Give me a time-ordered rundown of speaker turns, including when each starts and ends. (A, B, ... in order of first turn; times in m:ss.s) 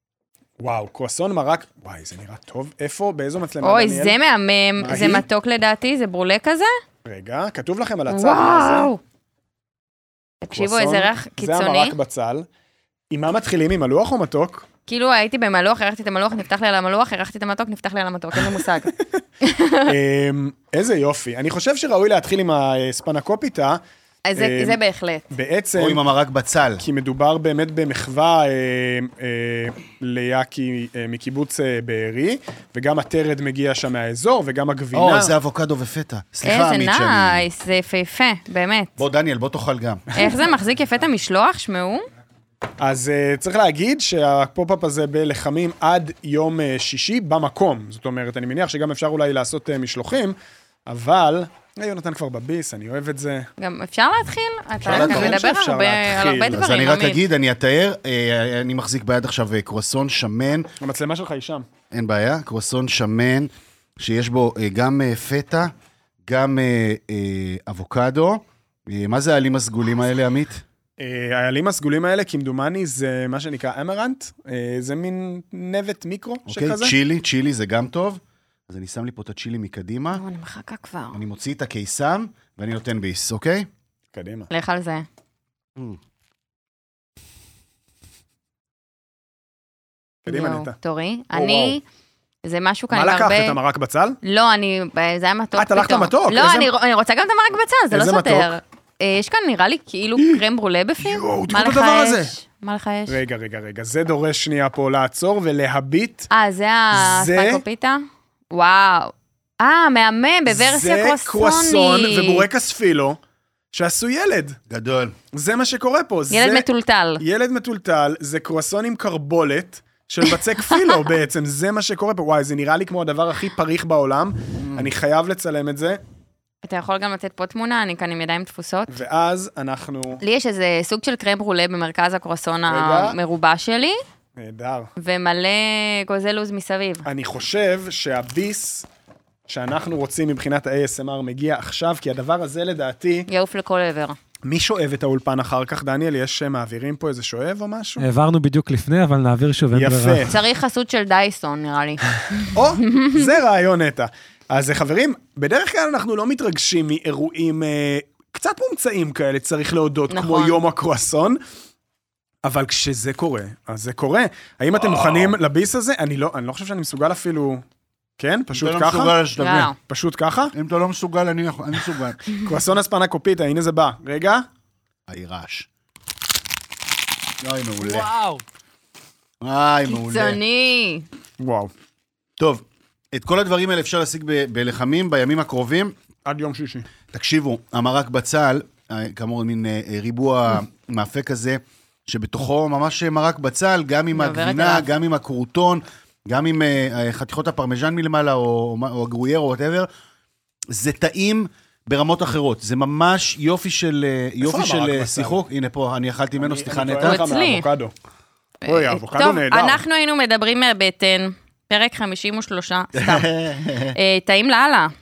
0:00.6-0:04.2 A
0:03.6-0:06.7 B
0:04.8-0:05.2 A
0:07.0-0:08.9 A
0:08.1-0:09.0 B
0:10.4-0:11.9 B
0:10.5-0:12.4 A
0:13.1-0:14.6 A
0:14.9-0:19.8 B
0:18.3-0:19.2 A
0:19.8-0:23.8 A
0:24.2-0:25.2 B
0:24.4-0:24.8 A
0:25.3-0:26.0 A
0:25.8-0:26.8 C
0:26.8-0:35.3 A
0:34.9-0:37.4 C
0:36.4-0:39.0 B
0:39.0-0:40.0 C
0:40.2-0:42.0 B
0:42.8-0:50.3 A
0:50.9-0:53.5 A
0:53.6-0:57.2 B
0:54.8-0:56.6 A
0:54.9-0:55.4 C
0:56.5-1:00.7 C
1:00.8-1:01.6 A
1:01.9-1:05.7 C
1:06.3-1:10.6 C
1:11.0-1:16.9 A
1:16.5-1:20.2 C
1:20.2-1:21.2 B
1:21.1-1:23.7 C
1:24.1-1:24.5 A
1:24.5-1:25.0 B
1:30.2-1:30.7 A
1:30.3-1:31.8 B
1:31.3-1:31.8 A
1:32.4-1:33.6 B
1:32.9-1:34.2 A
1:34.2-1:43.2 B
1:35.5-1:36.7 A
1:37.9-1:38.5 A
1:41.0-1:42.3 A
1:43.1-1:46.3 A
1:46.3-1:52.4 B
1:46.9-1:47.6 A
1:50.5-1:53.2 A
1:53.7-1:54.6 A
1:54.7-1:55.1 C
1:55.3-1:56.7 A
1:56.3-1:57.2 B
1:57.2-2:06.0 A
2:04.6-2:04.9 C
2:06.6-2:08.9 B
2:08.9-2:10.2 A
2:10.2-2:14.0 B
2:12.7-2:13.2 A
2:14.4-2:14.9 A
2:15.0-2:17.0 B
2:17.0-2:18.9 A
2:19.5-2:23.3 A
2:23.3-2:24.2 B
2:24.4-2:28.0 A
2:28.0-2:30.4 D
2:29.7-2:30.3 A
2:30.3-2:33.3 B
2:32.4-2:41.4 A
2:40.1-2:40.6 B
2:42.4-2:47.6 A
2:44.9-2:45.3 C
2:48.2-2:50.5 A
2:48.5-2:49.7 C
2:49.4-2:49.7 B
2:50.5-2:52.2 C
2:52.3-2:54.4 A
2:55.1-2:55.7 C
2:57.4-2:58.1 C
2:58.0-2:58.4 A
2:59.4-3:00.4 C
2:59.8-3:01.0 B
3:01.4-3:01.7 A
3:02.4-3:05.9 C
3:06.2-3:06.9 A
3:07.1-3:19.9 C
3:14.1-3:14.9 B
3:20.7-3:27.2 C
3:24.4-3:25.4 A
3:26.4-3:27.9 A
3:27.0-3:27.6 B
3:28.6-3:29.8 A
3:28.6-3:33.3 B
3:32.9-3:34.0 C
3:33.9-3:34.9 B